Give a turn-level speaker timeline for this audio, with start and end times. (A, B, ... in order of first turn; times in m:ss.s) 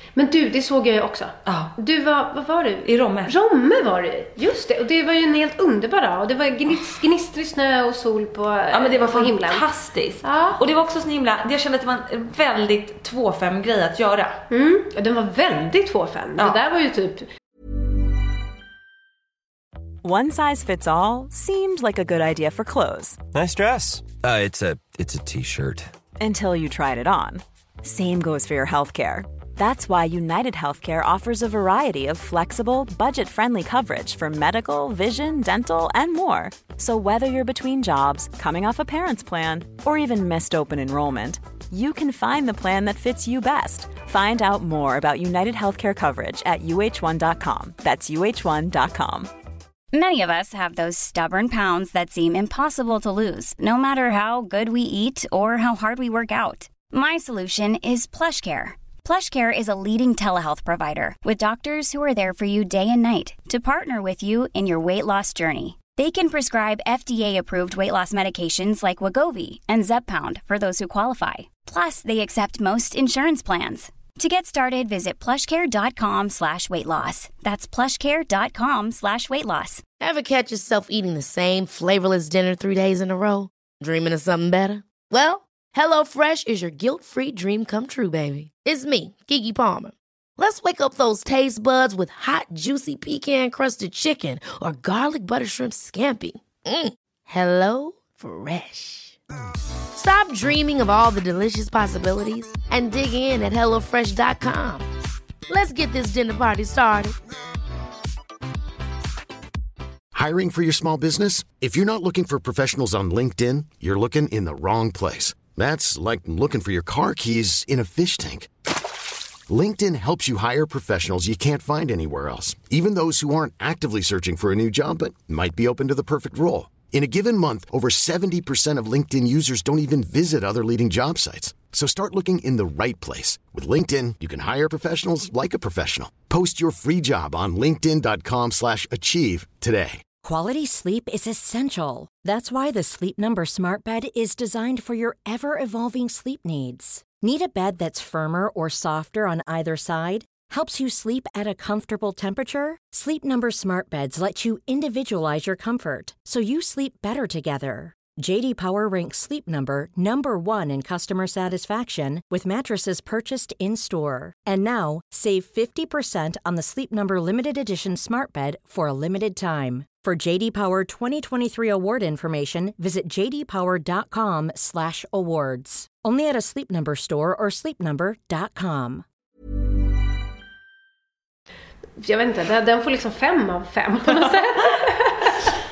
0:00.2-0:09.6 A
0:01.4-0:01.7 B
0:02.8-0:03.3 B
0:08.7-0:14.4 B
0:10.2-0:10.6 A
0:14.5-0:17.3 A
0:20.0-0:23.2 C
0:23.4-0:25.9 D
0:26.2-0:49.3 C
0:49.9-1:19.8 E
1:20.0-1:39.2 F
1:39.9-1:44.9 F
1:45.5-1:47.1 F
1:50.1-1:58.5 G
1:59.5-2:20.0 G
2:20.2-2:59.0 H
3:02.0-3:05.4 A